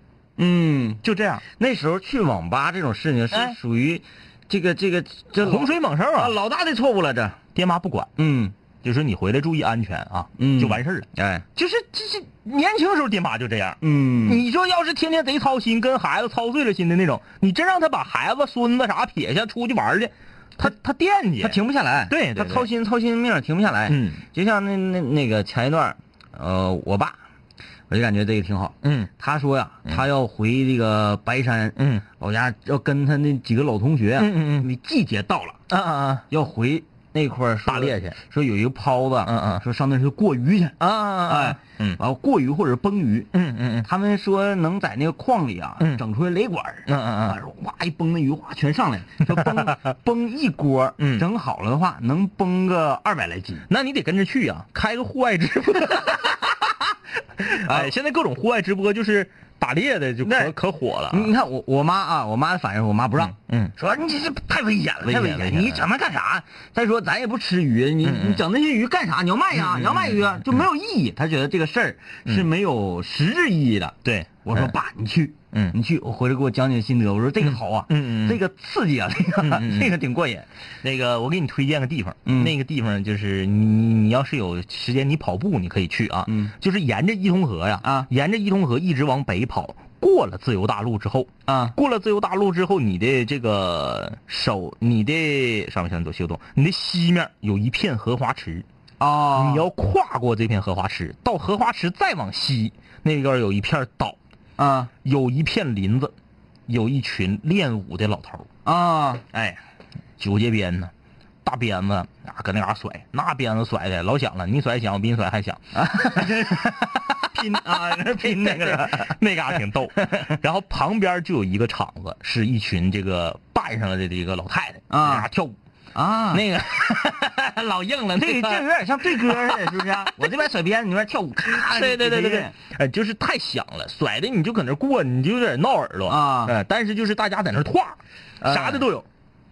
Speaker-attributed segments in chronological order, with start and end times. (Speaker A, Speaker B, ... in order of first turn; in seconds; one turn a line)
Speaker A: 0.4-1.0
Speaker B: 1.0-1.4
Speaker A: 1.6-7.4
Speaker B: 5.4-6.3
Speaker B: 7.5-8.1
Speaker A: 8.2-8.5
Speaker B: 8.8-22.7
Speaker A: 10.4-11.4
Speaker A: 13.8-14.4
Speaker A: 21.4-27.2
Speaker B: 23.9-24.2
Speaker A: 27.9-35.6
Speaker B: 28.8-29.1
Speaker B: 31.8-32.0
Speaker B: 34.2-34.7
Speaker B: 35.7-36.3
Speaker A: 36.3-43.3
Speaker B: 37.7-38.2
Speaker B: 39.3-39.6
Speaker B: 40.8-42.0
Speaker B: 43.3-43.9
Speaker A: 43.9-53.7
Speaker B: 46.9-47.4
Speaker B: 49.3-49.7
Speaker B: 51.0-51.2
Speaker B: 53.7-56.5
Speaker B: 57.4-61.3
Speaker A: 57.5-57.9
Speaker A: 60.2-60.5
Speaker A: 61.1-80.5
Speaker B: 63.2-63.7
Speaker B: 65.0-65.9
Speaker B: 68.0-68.4
Speaker B: 69.5-70.6
Speaker B: 74.0-74.7
Speaker B: 77.4-78.4
Speaker B: 79.4-79.9
Speaker B: 80.8-98.7
Speaker A: 82.2-82.5
Speaker A: 86.3-86.5
Speaker A: 87.8-88.1
Speaker A: 91.5-91.8
Speaker A: 99.0-99.7
Speaker B: 99.3-104.2
Speaker A: 104.6-104.9
Speaker B: 105.0-106.1
Speaker B: 106.7-108.5
Speaker A: 108.7-109.6
Speaker B: 110.2-110.9
Speaker B: 111.4-125.6
Speaker A: 115.7-119.2
Speaker A: 124.9-125.3
Speaker A: 126.0-126.5
Speaker B: 126.3-130.3
Speaker A: 128.2-132.5
Speaker B: 131.5-139.1
Speaker A: 136.1-136.6
Speaker A: 138.4-138.8